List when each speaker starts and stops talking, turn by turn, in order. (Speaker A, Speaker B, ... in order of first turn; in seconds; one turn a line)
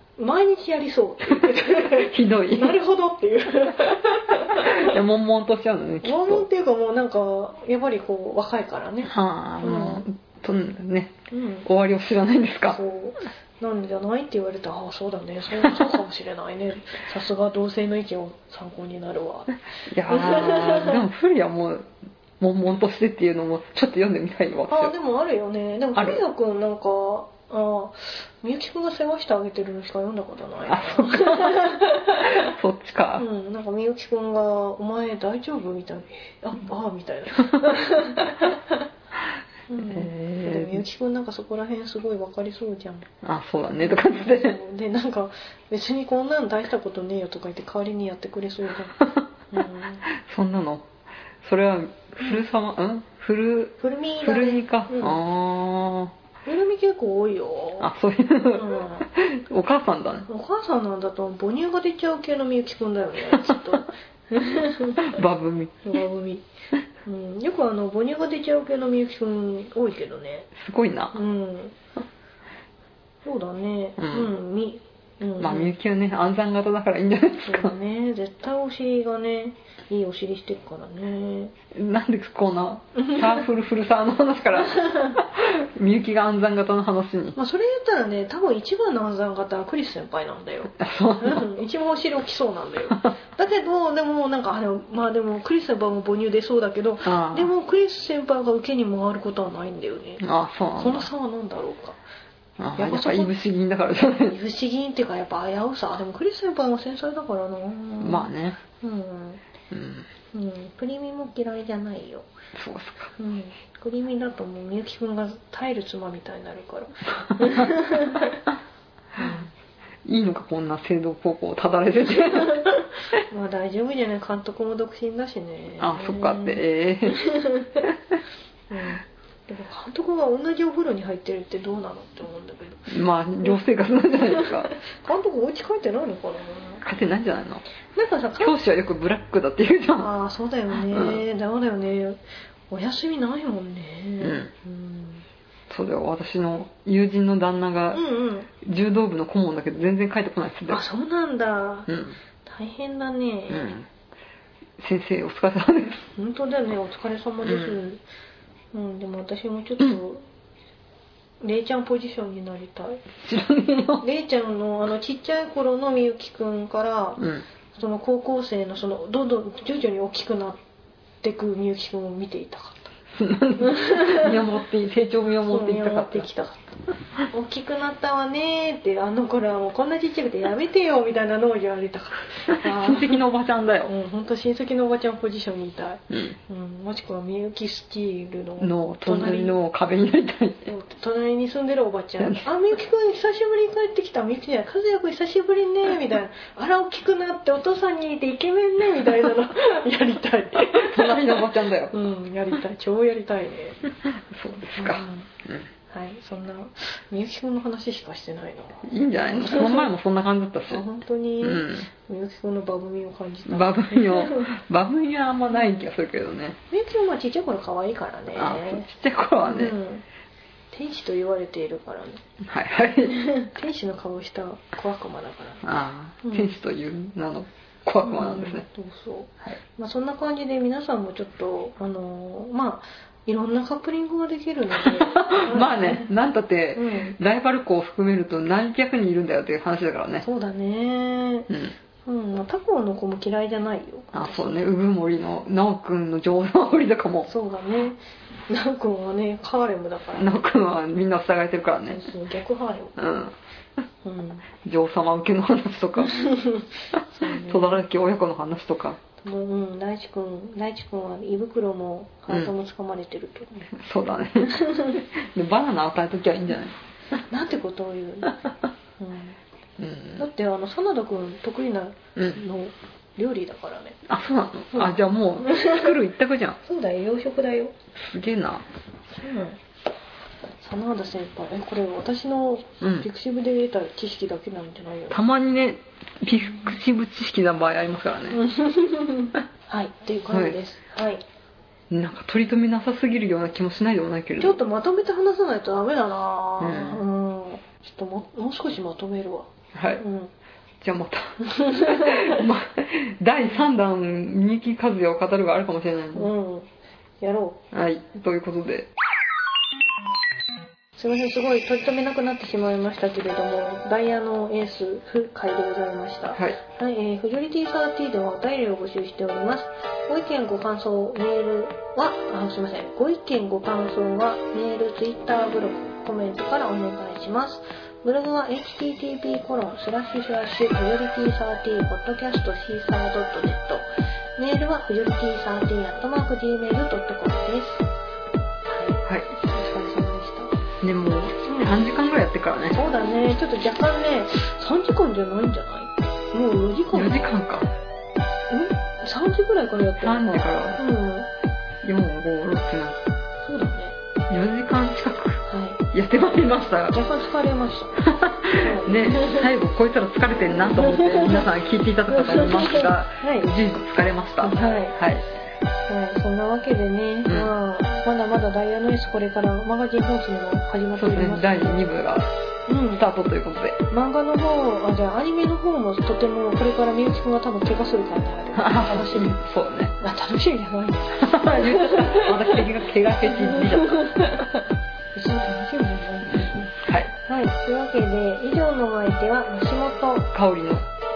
Speaker A: 0.2-5.0
Speaker B: 1.8-2.8
Speaker B: 4.5-6.5
Speaker A: 6.0-10.0
Speaker B: 9.1-12.8
Speaker A: 11.3-11.7
Speaker A: 12.7-21.0
Speaker B: 19.9-21.9
Speaker B: 22.4-24.9
Speaker A: 24.7-32.5
Speaker B: 25.9-26.2
Speaker B: 30.7-33.3
Speaker A: 33.2-38.8
Speaker A: 39.7-43.1
Speaker B: 39.8-40.8
Speaker B: 43.2-44.6
Speaker A: 43.8-50.0
Speaker B: 50.0-50.9
Speaker B: 51.4-56.1
Speaker A: 53.8-55.2
Speaker A: 56.5-57.9
Speaker B: 57.8-60.3
Speaker A: 58.5-59.1
Speaker A: 60.3-65.2
Speaker B: 65.0-65.9
Speaker A: 65.8-66.5
Speaker A: 67.0-70.5
Speaker B: 70.6-71.2
Speaker A: 71.1-71.8
Speaker A: 73.2-75.7
Speaker B: 74.0-74.3
Speaker B: 75.4-77.8
Speaker A: 77.4-81.5
Speaker B: 81.7-87.4
Speaker A: 83.0-83.5
Speaker A: 84.7-85.2
Speaker A: 87.4-100.2
Speaker B: 90.8-91.5
Speaker B: 97.0-97.5
Speaker B: 100.2-101.1
Speaker A: 100.8-102.0
Speaker B: 102.6-104.4
Speaker A: 102.8-103.3
Speaker A: 104.2-109.4
Speaker B: 108.0-108.6
Speaker B: 109.7-110.1
Speaker A: 110.3-112.3
Speaker B: 112.6-113.1
Speaker A: 113.2-118.3
Speaker B: 117.4-117.7
Speaker A: 119.2-119.5
Speaker B: 120.1-122.7
Speaker A: 122.4-127.8
Speaker B: 125.8-127.2
Speaker A: 128.7-133.6
Speaker B: 132.9-134.7
Speaker A: 134.2-136.8
Speaker B: 136.8-137.6
Speaker A: 137.9-138.6
Speaker B: 138.4-140.1
Speaker A: 140.0-145.2
Speaker B: 140.7-141.2
Speaker B: 144.2-144.5
Speaker B: 145.7-148.0
Speaker A: 147.9-148.5
Speaker B: 148.6-150.8
Speaker A: 150.7-151.9
Speaker B: 151.9-152.2
Speaker A: 152.4-153.7
Speaker B: 153.5-153.9
Speaker B: 154.8-156.1
Speaker A: 156.2-158.0
Speaker B: 157.4-157.8
Speaker A: 158.7-160.2
Speaker A: 161.4-163.0
Speaker B: 163.2-164.0
Speaker A: 164.0-167.2
Speaker B: 167.2-167.4
Speaker A: 167.7-170.6
Speaker A: 171.2-172.9
Speaker B: 173.1-176.3
Speaker A: 173.6-174.4
Speaker A: 175.5-176.8
Speaker A: 177.3-183.2
Speaker B: 182.5-183.9
Speaker A: 183.9-189.6
Speaker B: 186.1-186.4
Speaker B: 188.6-190.7
Speaker A: 190.7-203.8
Speaker B: 192.2-192.5
Speaker B: 200.7-201.9
Speaker B: 204.2-205.7
Speaker A: 204.7-205.3
Speaker A: 205.9-209.9
Speaker B: 208.8-210.8
Speaker A: 210.7-214.5
Speaker B: 211.4-211.9
Speaker B: 213.5-216.6
Speaker A: 215.5-215.9
Speaker A: 216.7-218.9
Speaker B: 218.3-219.8
Speaker A: 219.5-220.0
Speaker A: 220.7-222.2
Speaker B: 222.4-223.2
Speaker A: 223.0-225.6
Speaker B: 225.6-228.7
Speaker A: 226.2-226.6
Speaker A: 228.0-236.1
Speaker B: 234.8-240.2
Speaker A: 236.8-237.2
Speaker A: 240.2-241.5
Speaker B: 241.5-241.8
Speaker A: 242.1-244.7
Speaker B: 244.1-247.3
Speaker A: 247.3-248.0
Speaker A: 248.5-250.4
Speaker B: 250.2-252.1
Speaker A: 251.9-253.0
Speaker B: 253.0-253.3
Speaker A: 254.0-254.5
Speaker B: 254.6-256.1
Speaker A: 256.0-257.8
Speaker B: 257.0-259.0
Speaker A: 259.2-263.7
Speaker B: 263.7-266.8
Speaker A: 264.5-265.0
Speaker A: 267.2-268.4
Speaker A: 269.0-269.4
Speaker B: 269.8-270.2
Speaker A: 270.2-274.0
Speaker B: 274.1-276.6
Speaker A: 274.7-275.9
Speaker A: 276.6-277.7
Speaker B: 277.9-278.6
Speaker A: 279.1-279.6
Speaker A: 280.6-285.2
Speaker B: 282.8-283.1
Speaker B: 285.1-288.4
Speaker A: 288.3-291.2
Speaker B: 290.3-290.6
Speaker B: 291.9-294.6
Speaker A: 294.4-300.3
Speaker B: 296.6-297.0
Speaker B: 299.8-300.0
Speaker B: 300.8-306.3
Speaker A: 301.4-302.5
Speaker A: 306.1-306.7
Speaker A: 307.2-307.6
Speaker B: 307.7-308.9
Speaker A: 311.0-333.9
Speaker A: 334.4-337.9
Speaker A: 338.7-340.6
Speaker B: 340.8-342.8
Speaker A: 341.5-341.8
Speaker A: 342.7-347.2
Speaker B: 346.9-347.7
Speaker A: 348.5-351.3
Speaker B: 350.0-350.8
Speaker B: 351.8-353.0
Speaker A: 353.4-354.0
Speaker B: 354.3-357.0
Speaker A: 355.5-355.8
Speaker A: 356.9-359.5
Speaker B: 358.0-365.3
Speaker A: 360.7-361.5
Speaker A: 362.1-363.5
Speaker A: 364.4-365.0
Speaker A: 365.9-371.8
Speaker B: 367.3-367.5
Speaker B: 371.0-372.3
Speaker A: 372.7-373.0
Speaker B: 373.0-373.8
Speaker A: 373.9-379.4
Speaker B: 378.6-380.0
Speaker A: 380.0-382.7
Speaker B: 381.2-384.2
Speaker A: 383.2-384.6
Speaker A: 385.1-390.3
Speaker B: 386.3-387.1
Speaker B: 390.3-390.9